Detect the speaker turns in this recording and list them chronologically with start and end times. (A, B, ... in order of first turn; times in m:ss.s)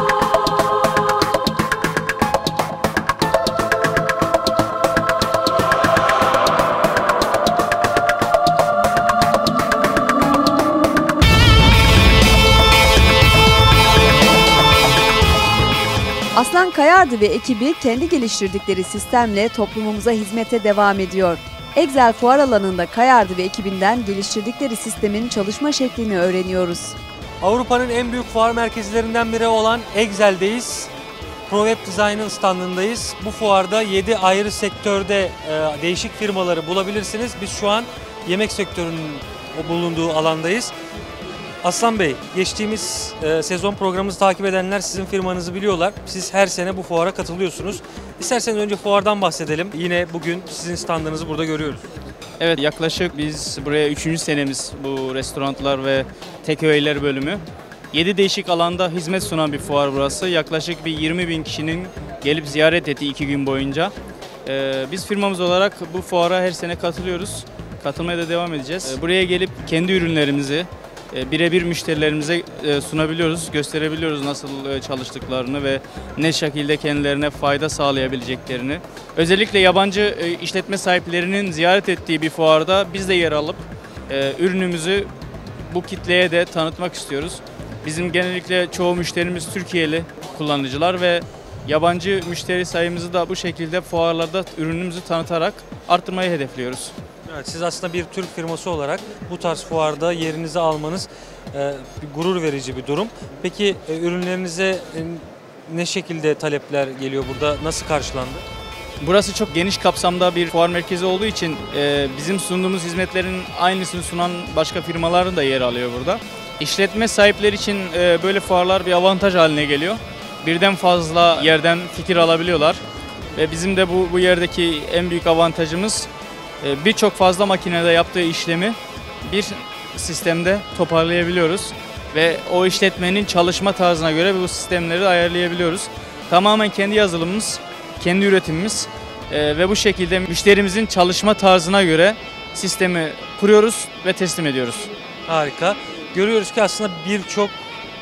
0:16.3-0:27.0 A
0:27.4-0:30.9 B
0:31.5-0:40.7 B
0:41.6-0:51.8 B
0:52.4-1:03.9 C
1:04.4-1:25.1 C
1:25.6-1:36.9 C
1:37.3-1:48.4 B
1:49.0-2:02.8 C
2:03.3-2:06.1 C
2:06.6-2:24.9 C
2:25.3-2:27.5 B